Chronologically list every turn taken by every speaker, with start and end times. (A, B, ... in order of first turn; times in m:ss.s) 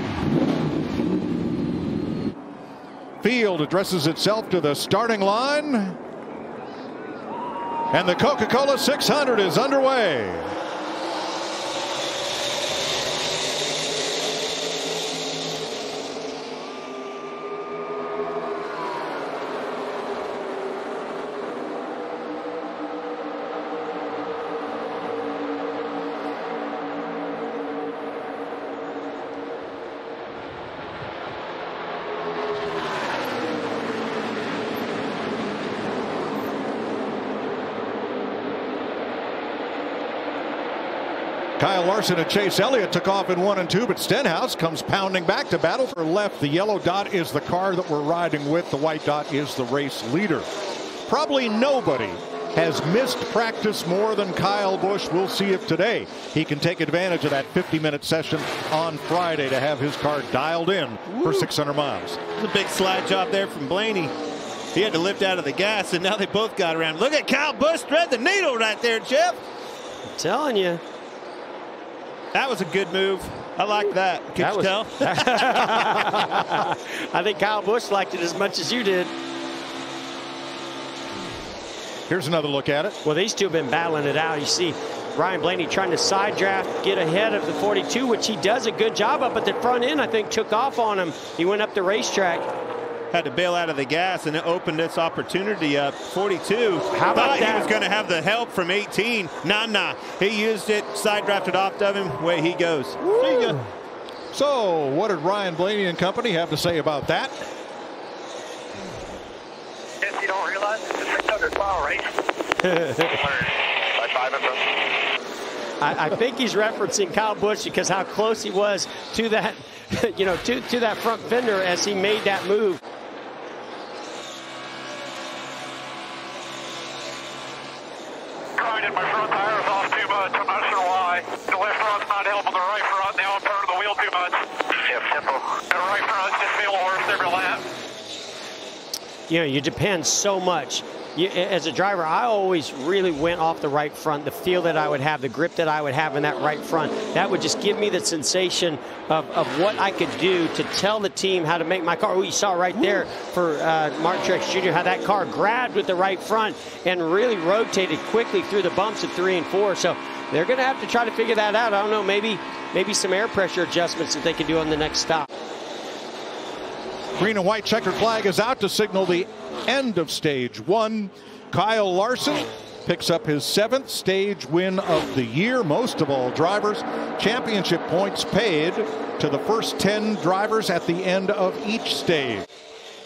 0:03.2-0:06.0 A
0:07.9-0:10.5 A
0:41.6-0:50.5 A
0:51.1-1:02.2 A
1:01.1-1:01.5 B
1:02.4-1:04.1 B
1:04.7-1:09.4 B
1:10.1-1:10.8 C
1:12.3-1:16.4 B
1:14.4-1:19.1 C
1:22.1-1:23.0 A
1:23.0-1:32.5 C
1:33.1-1:43.6 B
1:36.9-1:37.7 C
1:44.3-1:47.3 A
1:50.0-1:52.2 D
1:52.6-1:53.2 C
1:53.1-1:54.9 D
1:55.8-2:02.8 C
2:08.6-2:17.7 D
2:19.3-2:45.3 C
2:47.2-3:02.5 A